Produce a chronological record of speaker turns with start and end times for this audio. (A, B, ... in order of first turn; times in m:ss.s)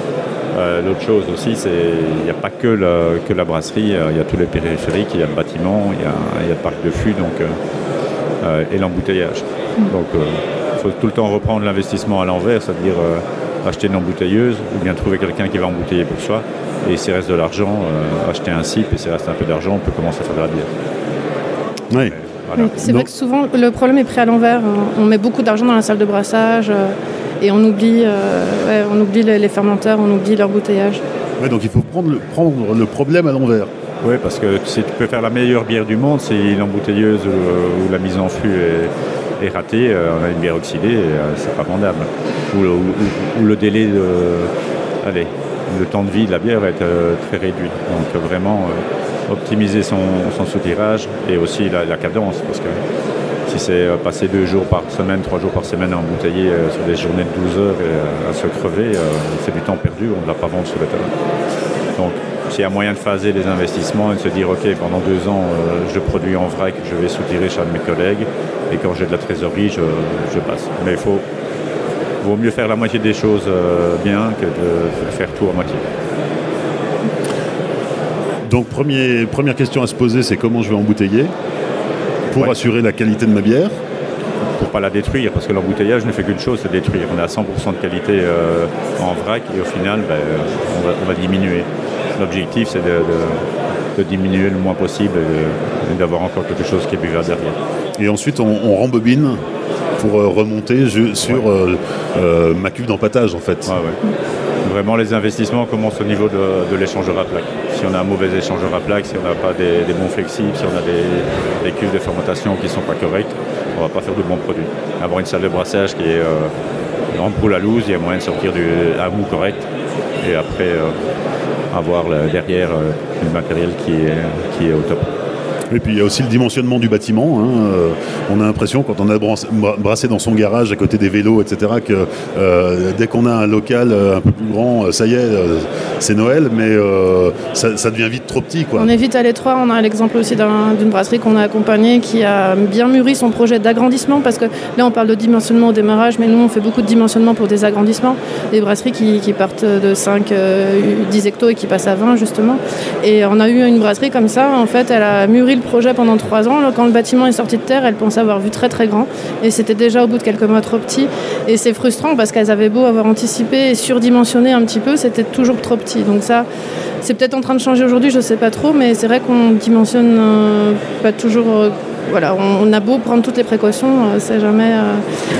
0:00.5-0:07.5 A
0:08.4-0:20.7 A
0:22.1-0:22.8 A
0:22.6-0:31.0 B
0:22.8-0:23.1 C
0:31.4-0:33.7 C
0:34.0-0:44.5 A
0:45.0-0:52.8 A
0:53.5-1:01.1 A
1:02.0-1:11.2 A
1:12.2-1:15.8 A
1:18.5-1:21.3 C
1:22.3-1:22.5 A
1:22.3-1:23.7 C
1:24.6-1:37.6 A
1:38.0-1:39.4 C
1:40.0-1:43.8 C
1:43.7-1:44.0 A
1:44.6-1:56.5 A
1:57.1-1:59.7 A
2:00.2-2:00.9 A
2:01.7-2:05.1 A
2:05.7-2:18.9 C
2:18.8-2:46.4 B
2:47.0-2:55.0 B